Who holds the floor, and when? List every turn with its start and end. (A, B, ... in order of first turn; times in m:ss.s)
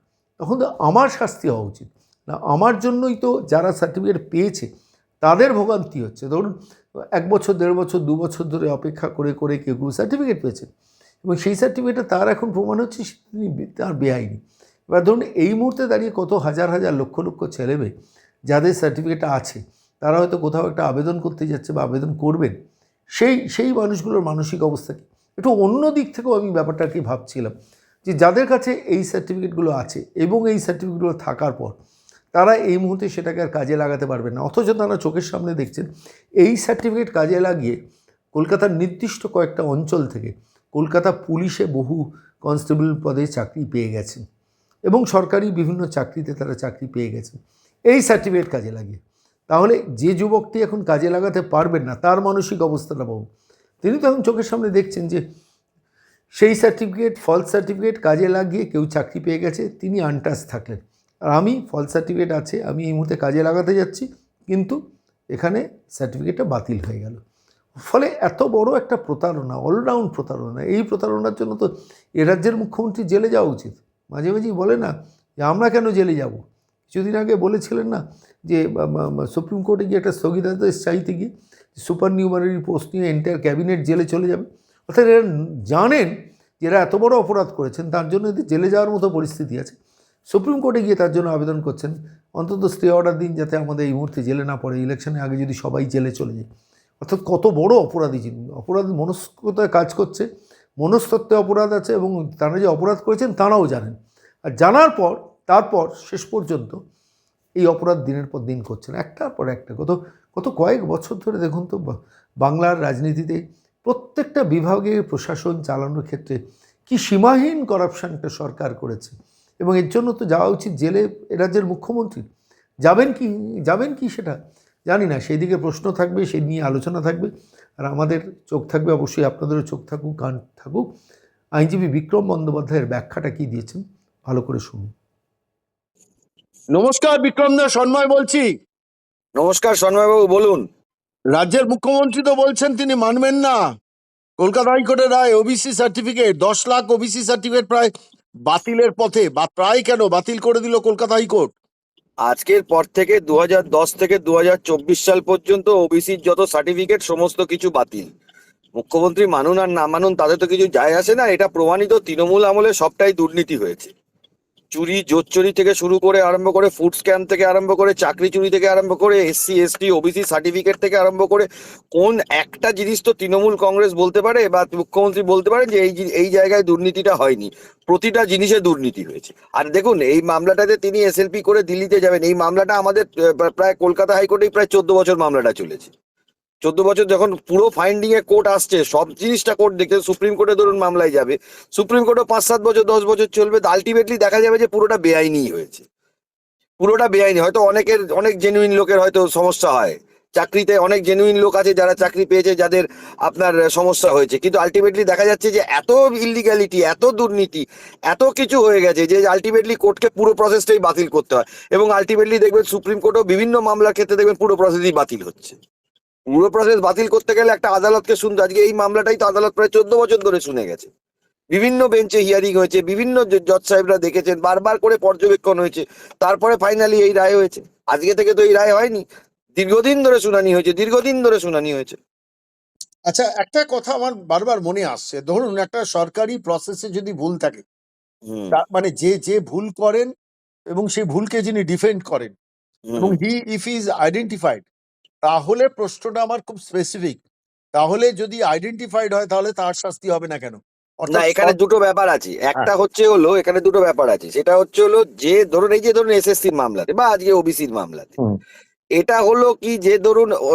0:00.4-0:04.7 A
0:05.2-0:06.5 A
0:07.2-0:10.7 A
0:11.2-0:14.4 A
0:14.9-0:17.9 A
0:18.5-0:22.5 A
0:23.2-0:27.5 A
0:28.1-0:31.7 A
0:32.3-0:35.9 A
0:36.4-0:37.8 A
0:38.4-0:44.2 A
0:44.9-0:47.4 A
0:47.9-0:53.2 A
0:53.8-0:55.2 A
0:56.4-1:00.8 A
1:01.3-1:04.8 A
1:05.3-1:07.2 A
1:07.8-1:11.7 A
1:12.2-1:14.9 A
1:15.4-1:29.8 A
1:30.3-1:36.4 A
1:37.0-1:40.3 A
1:40.8-1:44.0 A
1:44.5-1:46.8 A
1:47.6-2:02.2 A
2:02.8-2:07.3 A
2:07.8-2:10.9 A
2:11.6-2:14.9 A
2:16.7-2:18.5 B
2:19.4-2:20.6 C
2:21.3-2:23.6 B
2:24.4-2:27.9 B
2:28.5-2:31.5 B
2:32.2-2:38.1 C
2:38.8-2:43.9 C
2:44.8-3:05.9 C
3:06.6-3:15.8 C
3:16.8-3:35.6 C
3:36.3-3:40.9 C
3:41.5-3:49.0 C
3:49.6-3:52.0 C
3:53.1-3:57.6 B
3:58.3-3:58.6 C
3:58.5-4:00.1 B
4:00.7-4:02.3 B
4:02.9-4:03.2 C
4:03.0-4:04.6 B
4:05.2-4:07.2 B
4:07.8-4:11.5 B
4:11.1-4:18.1 C
4:19.0-4:20.3 C